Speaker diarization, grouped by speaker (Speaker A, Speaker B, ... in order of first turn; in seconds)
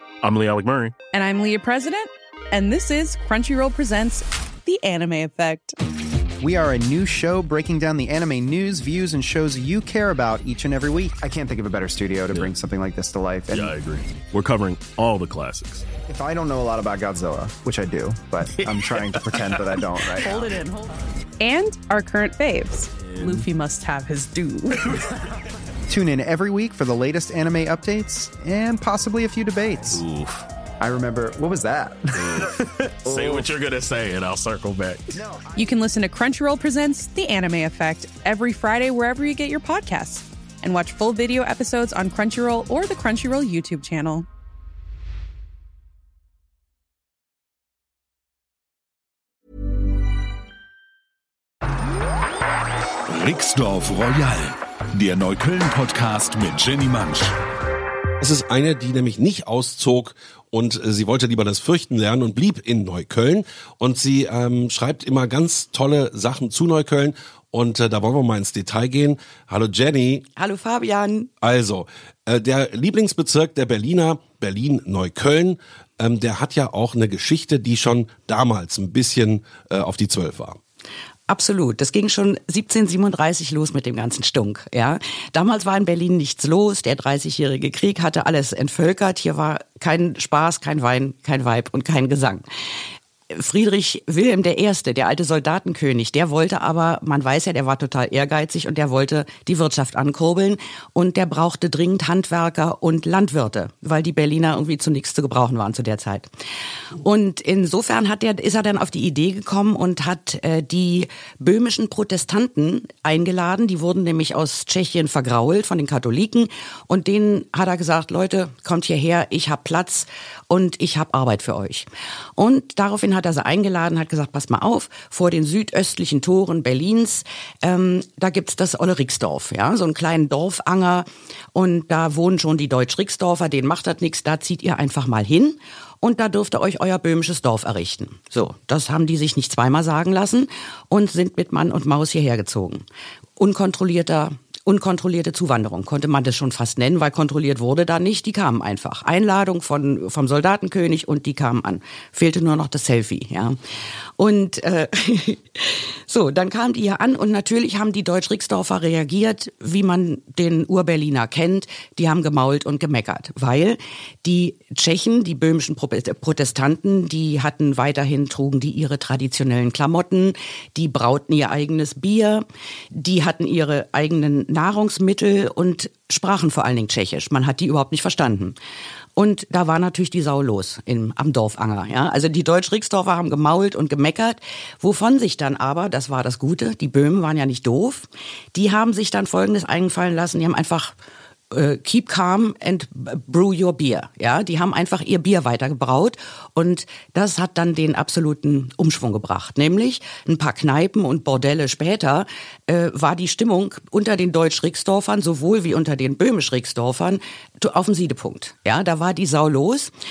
Speaker A: 0.2-0.9, 13.5-15.8, 29.9-30.4, 33.1-35.0
Speaker B: 1.1-5.8, 20.3-24.9, 35.6-44.3
Speaker C: 6.4-13.7, 16.1-20.5, 25.9-30.0, 30.8-33.5, 35.1-35.7
Speaker D: 53.1-57.3
Speaker E: 58.2-70.2, 71.4-80.6
Speaker F: 70.4-71.3, 81.3-92.5, 93.3-106.3, 107.0-142.8, 143.4-153.6, 154.2-178.6, 179.2-191.0, 191.5-209.9